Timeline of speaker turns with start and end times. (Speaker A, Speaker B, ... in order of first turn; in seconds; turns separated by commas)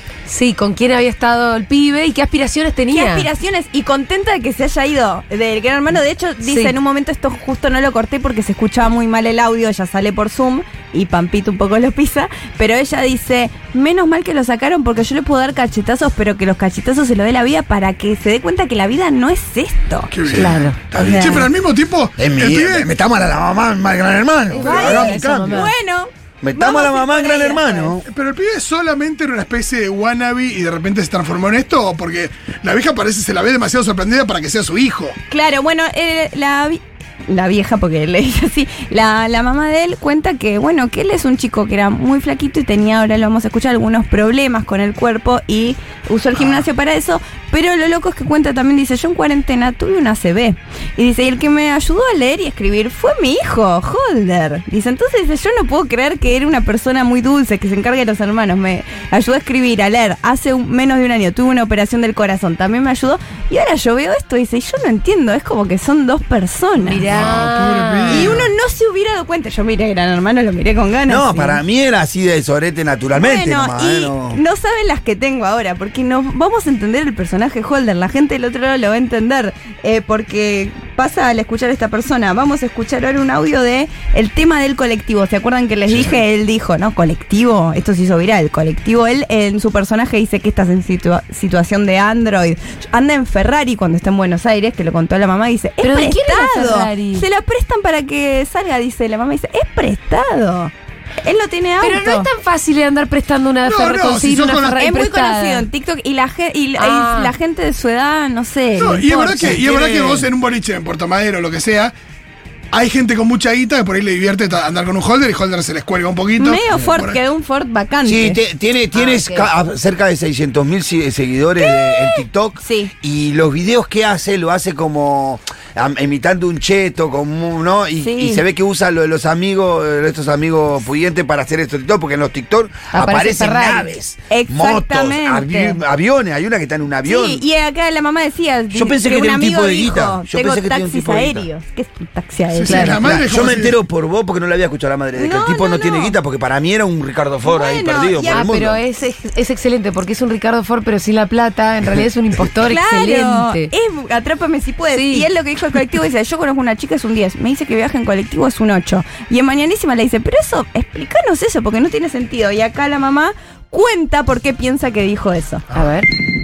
Speaker A: 0.2-3.3, Speaker B: 2.9-21.5, Speaker A: 6.4-6.7, Speaker C: 20.1-22.9, Speaker D: 20.3-21.4, Speaker D: 22.2-25.6, Speaker A: 24.5-25.7, Speaker B: 24.6-27.9, Speaker C: 24.7-25.4, Speaker D: 26.4-28.0, Speaker C: 28.0-35.1, Speaker B: 35.3-67.0, Speaker C: 46.4-46.6, Speaker A: 66.8-68.3, Speaker C: 67.0-68.5, Speaker B: 68.1-71.6, Speaker D: 71.1-74.4, Speaker B: 73.1-100.7, Speaker A: 95.8-97.2, Speaker B: 101.2-102.3, Speaker A: 101.8-105.7, Speaker C: 103.6-104.8, Speaker B: 104.8-110.0, Speaker A: 106.8-107.3, Speaker C: 108.8-111.9, Speaker D: 109.6-110.2, Speaker C: 112.7-117.2, Speaker B: 116.4-118.4, Speaker D: 118.0-137.4, Speaker B: 119.0-119.4, Speaker B: 121.6-122.9, Speaker B: 128.0-128.4, Speaker A: 132.9-133.9, Speaker B: 134.3-135.8, Speaker B: 137.0-143.2, Speaker D: 138.7-141.5, Speaker C: 142.5-143.8, Speaker A: 142.7-143.2, Speaker D: 143.2-148.8, Speaker B: 145.2-146.2, Speaker B: 147.4-148.5, Speaker A: 148.3-153.7, Speaker B: 152.6-165.6, Speaker A: 154.9-155.2, Speaker A: 165.7-166.1